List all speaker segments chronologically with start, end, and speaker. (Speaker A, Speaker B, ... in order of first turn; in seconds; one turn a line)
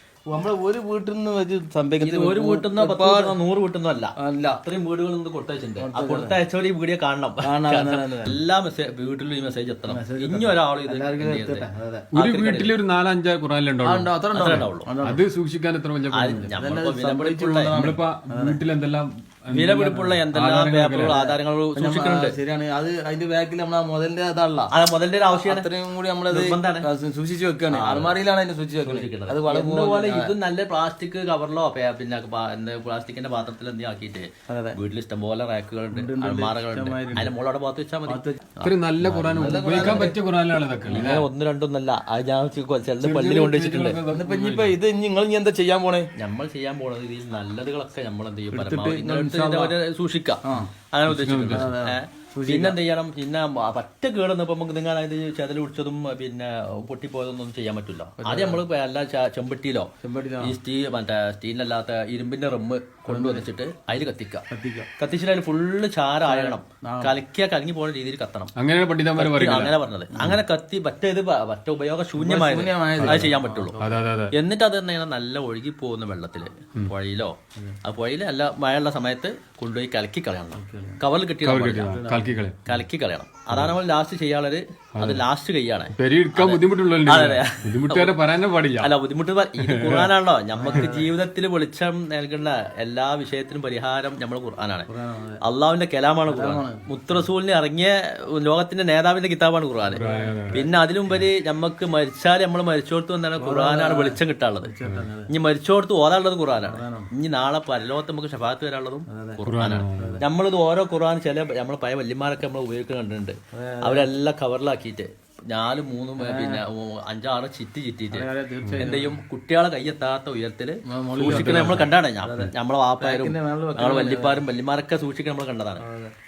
Speaker A: 0.3-3.4
Speaker B: 2.0-12.7
Speaker A: 4.2-4.6
Speaker A: 5.8-6.4
Speaker A: 7.4-8.4
Speaker A: 9.9-12.1
Speaker C: 12.1-16.5
Speaker A: 13.8-15.2
Speaker B: 14.3-14.9
Speaker B: 16.1-17.8
Speaker A: 16.3-18.6
Speaker C: 17.7-21.2
Speaker B: 19.5-22.4
Speaker A: 21.1-24.7
Speaker B: 24.7-25.7
Speaker A: 25.4-30.3
Speaker B: 26.3-26.9
Speaker B: 27.7-28.2
Speaker B: 28.8-38.2
Speaker A: 34.5-34.8
Speaker A: 35.9-37.3
Speaker A: 38.1-38.5
Speaker C: 38.6-41.3
Speaker B: 39.0-40.1
Speaker A: 39.3-40.2
Speaker B: 40.9-44.0
Speaker C: 43.0-44.8
Speaker A: 44.1-46.1
Speaker B: 46.2-59.9
Speaker A: 48.5-49.8
Speaker C: 50.6-51.7
Speaker A: 51.5-52.8
Speaker A: 58.2-58.6
Speaker A: 60.0-60.6
Speaker B: 60.4-64.4
Speaker A: 63.1-63.5
Speaker A: 64.5-64.9
Speaker B: 65.0-68.5
Speaker A: 66.2-67.2
Speaker C: 68.6-69.7
Speaker B: 69.2-73.8
Speaker A: 70.1-70.4
Speaker A: 72.2-74.0
Speaker C: 73.0-74.3
Speaker B: 74.3-77.3
Speaker B: 77.8-82.1
Speaker A: 80.6-81.0
Speaker C: 81.4-82.6
Speaker A: 81.9-82.3
Speaker B: 82.7-88.2
Speaker C: 85.0-85.2
Speaker C: 85.9-88.9
Speaker B: 88.8-94.9
Speaker C: 89.6-90.1
Speaker A: 90.5-91.1
Speaker A: 94.9-95.4
Speaker B: 95.4-104.7
Speaker A: 96.3-97.2
Speaker A: 99.9-100.7
Speaker C: 100.0-101.3
Speaker A: 103.4-105.3
Speaker B: 105.3-118.3
Speaker A: 106.6-107.1
Speaker A: 109.1-109.4
Speaker C: 109.4-110.2
Speaker A: 110.0-110.2
Speaker A: 113.5-114.1
Speaker A: 116.2-116.6
Speaker A: 118.1-119.2
Speaker B: 118.8-125.8
Speaker A: 120.9-124.4
Speaker C: 121.2-121.9
Speaker A: 125.8-126.1